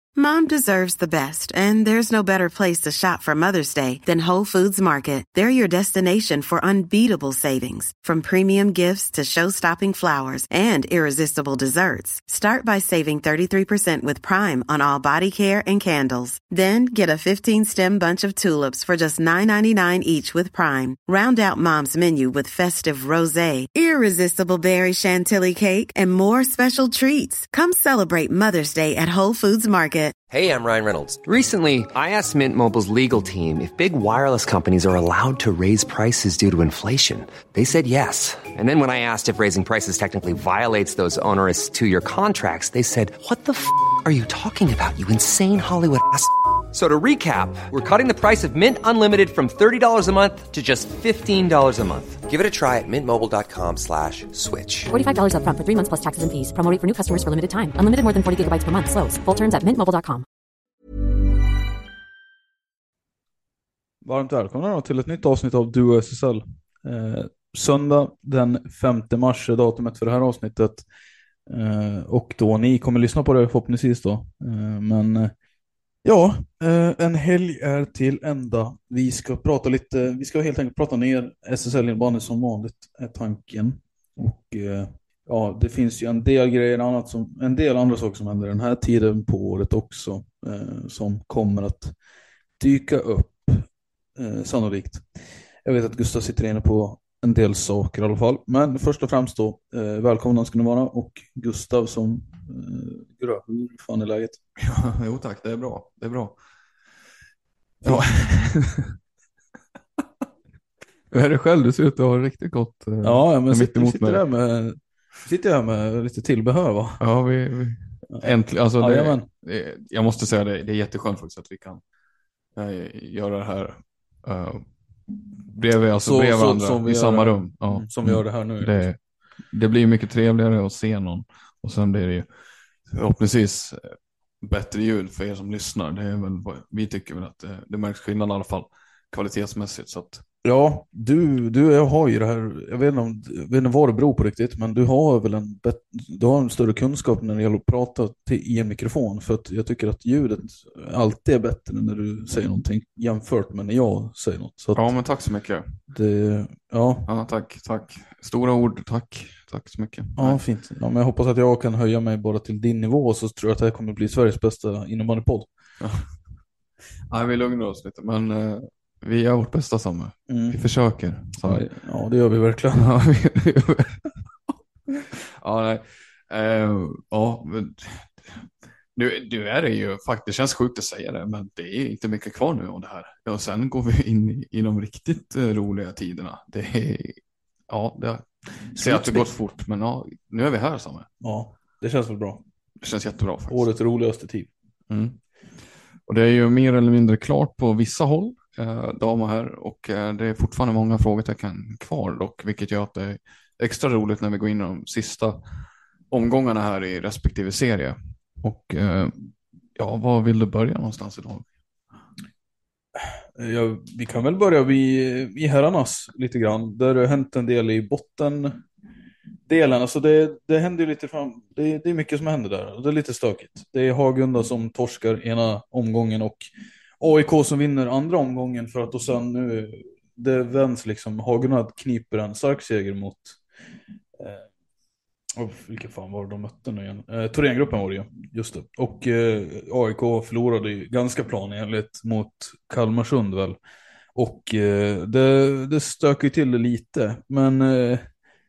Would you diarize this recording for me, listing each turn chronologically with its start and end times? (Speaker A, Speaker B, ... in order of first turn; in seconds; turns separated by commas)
Speaker A: 0.2-30.2, Speaker B: 30.3-54.9, Speaker C: 54.9-60.2, Speaker D: 64.0-70.8, Speaker D: 71.5-75.3, Speaker D: 76.0-92.0, Speaker D: 92.6-104.4, Speaker E: 104.6-106.4, Speaker D: 107.8-108.5, Speaker E: 107.8-108.9, Speaker E: 111.1-114.2, Speaker D: 113.0-117.0, Speaker E: 117.0-121.8, Speaker D: 118.1-119.3, Speaker E: 122.6-124.7, Speaker E: 125.5-129.0, Speaker D: 126.0-128.9, Speaker E: 129.5-132.3, Speaker E: 132.9-140.2, Speaker D: 140.4-154.9, Speaker E: 154.7-155.8, Speaker D: 155.9-157.1, Speaker E: 157.1-160.4, Speaker D: 160.2-165.5, Speaker E: 165.8-166.1, Speaker E: 167.1-171.7, Speaker D: 170.3-170.7, Speaker D: 171.4-172.9, Speaker E: 172.7-174.0, Speaker E: 175.1-191.1, Speaker D: 188.8-189.3, Speaker D: 191.2-192.4, Speaker E: 192.8-193.7, Speaker D: 193.5-194.5, Speaker E: 194.9-195.2, Speaker E: 196.1-205.4, Speaker E: 206.1-209.1, Speaker E: 209.8-211.4, Speaker D: 213.4-218.6, Speaker D: 219.5-233.4, Speaker D: 234.2-234.5, Speaker D: 235.4-243.6, Speaker D: 244.2-248.1